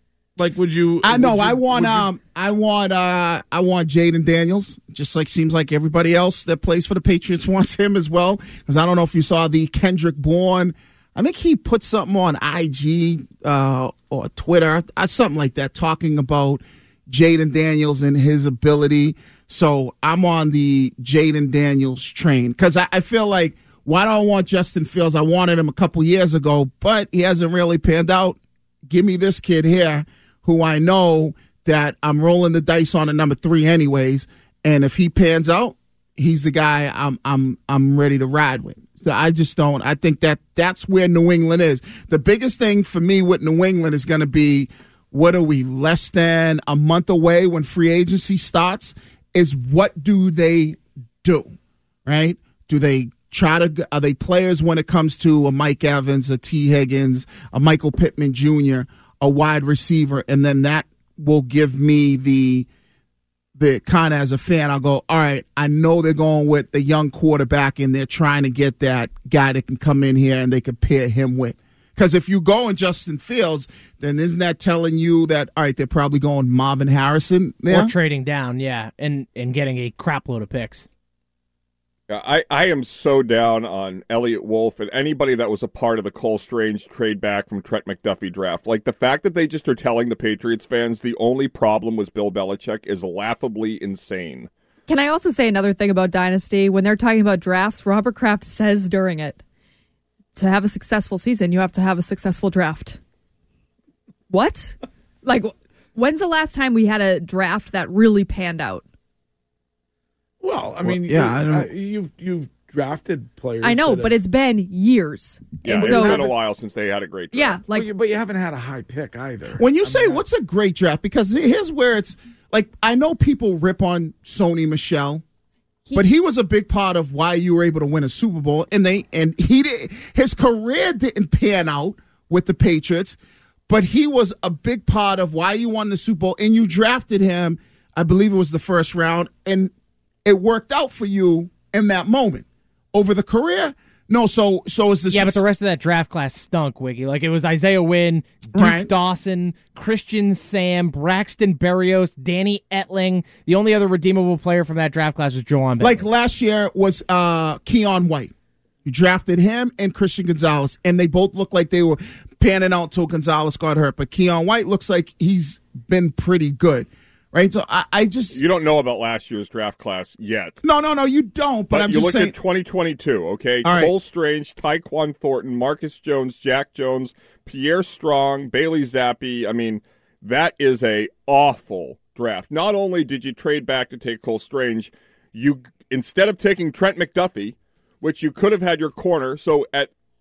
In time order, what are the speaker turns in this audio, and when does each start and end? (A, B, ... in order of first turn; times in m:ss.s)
0:00.4-0:02.1 A
0:01.0-0:51.5 B
0:52.1-1:02.7 B
1:03.6-1:17.9 B
1:17.7-1:20.9 C
1:22.1-1:34.5 D
1:34.9-1:39.4 E
1:40.4-1:43.0 E
1:44.3-1:48.8 E
1:50.4-1:54.2 A
1:50.8-1:51.7 B
1:53.6-1:56.3 E
1:55.6-1:57.6 D
1:55.8-1:56.3 A
1:57.3-1:57.9 E
1:57.7-2:00.2 A
1:59.6-2:05.2 B
2:06.0-2:13.2 B
2:13.7-2:19.7 B
2:20.2-2:25.5 B
2:25.1-2:36.1 C
2:28.5-2:28.9 B
2:35.8-2:38.3 B
2:38.8-2:48.4 B
2:48.3-2:50.6 D
2:50.6-2:52.4 B
2:51.7-3:09.9 D
2:53.6-2:53.9 B